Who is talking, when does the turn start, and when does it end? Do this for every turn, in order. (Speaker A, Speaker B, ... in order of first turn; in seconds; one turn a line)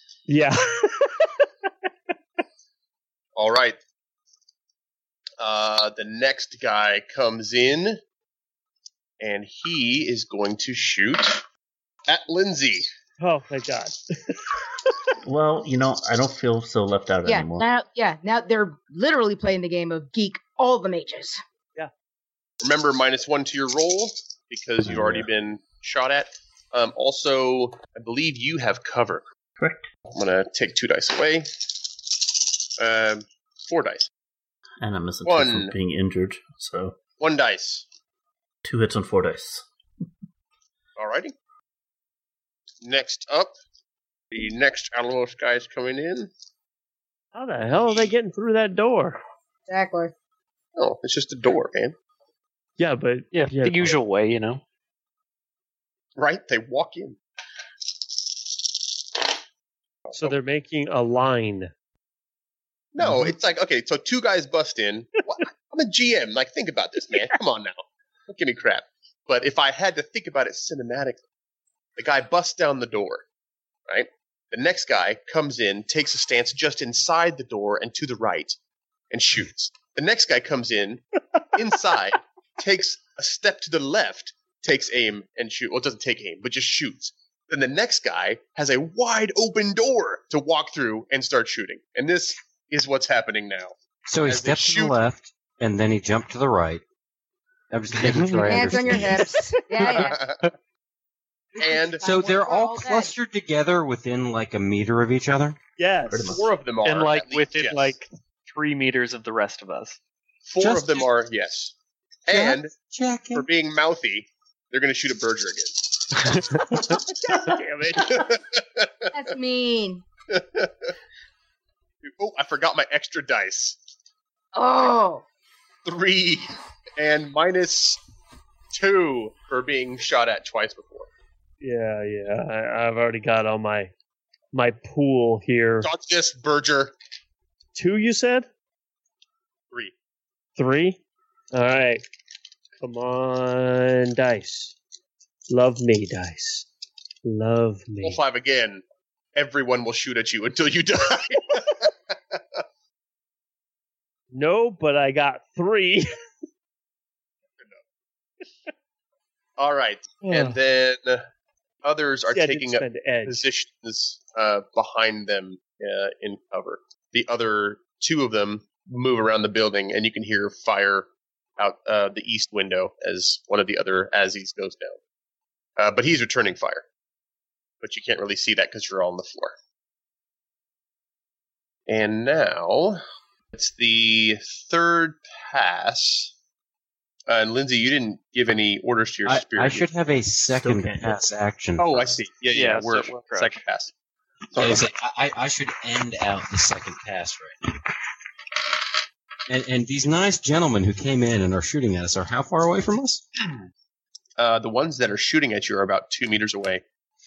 Speaker A: 0.3-1.4
Speaker B: 3.4-3.8
Speaker B: 5.4-8.0
Speaker B: 9.2-11.4
Speaker B: 12.1-12.9
Speaker A: 13.2-14.6
Speaker C: 15.2-17.6
Speaker D: 17.2-21.4
Speaker B: 22.6-29.2
Speaker C: 24.8-25.3
Speaker C: 29.6-29.9
Speaker B: 30.1-31.5
Speaker B: 32.8-34.1
Speaker C: 34.8-37.0
Speaker B: 35.2-35.7
Speaker B: 37.2-37.8
Speaker C: 38.6-39.6
Speaker B: 41.0-41.3
Speaker B: 42.8-43.5
Speaker B: 44.3-46.3
Speaker A: 47.3-49.2
Speaker B: 47.8-48.1
Speaker D: 49.7-50.1
Speaker B: 50.8-52.0
Speaker A: 52.8-53.9
Speaker E: 53.3-54.6
Speaker B: 56.2-57.2
Speaker B: 60.1-60.4
Speaker A: 60.1-61.7
Speaker B: 62.9-71.2
Speaker B: 72.0-73.2
Speaker B: 73.9-78.6
Speaker B: 79.1-81.0
Speaker B: 81.5-95.0
Speaker F: 94.1-96.8
Speaker F: 97.7-99.2
Speaker E: 98.0-98.6
Speaker D: 98.4-100.2
Speaker B: 99.8-100.5
Speaker D: 101.5-103.1
Speaker B: 101.6-102.0
Speaker F: 102.0-105.6
Speaker A: 105.8-106.3
Speaker C: 106.1-106.4
Speaker B: 106.3-107.9
Speaker E: 106.8-110.0
Speaker B: 110.5-111.7
Speaker F: 110.6-111.1
Speaker B: 112.3-112.7
Speaker F: 112.3-113.5
Speaker B: 113.3-119.1
Speaker A: 117.3-118.2
Speaker D: 119.1-120.0
Speaker B: 120.3-120.9
Speaker B: 122.0-123.8
Speaker D: 124.5-125.2
Speaker B: 125.8-128.0
Speaker B: 128.7-131.1
Speaker A: 131.6-133.9
Speaker A: 134.5-135.9
Speaker B: 135.8-136.9
Speaker A: 137.7-138.5
Speaker A: 140.6-141.0
Speaker A: 141.5-142.0
Speaker A: 142.8-144.8
Speaker A: 145.5-146.7
Speaker A: 147.2-148.2
Speaker B: 148.0-148.8
Speaker B: 149.3-152.6
Speaker A: 154.3-156.2
Speaker B: 159.6-161.2
Speaker A: 160.3-160.5
Speaker B: 161.8-175.0
Speaker A: 162.3-163.4
Speaker B: 175.8-176.8
Speaker B: 177.8-179.5
Speaker B: 181.9-183.0
Speaker B: 183.5-186.3
Speaker B: 187.3-189.9
Speaker F: 189.2-192.0
Speaker C: 190.5-191.2
Speaker B: 191.8-193.9
Speaker E: 192.5-193.6
Speaker B: 194.5-194.8
Speaker F: 194.6-197.8
Speaker F: 199.5-203.2
Speaker B: 204.4-206.8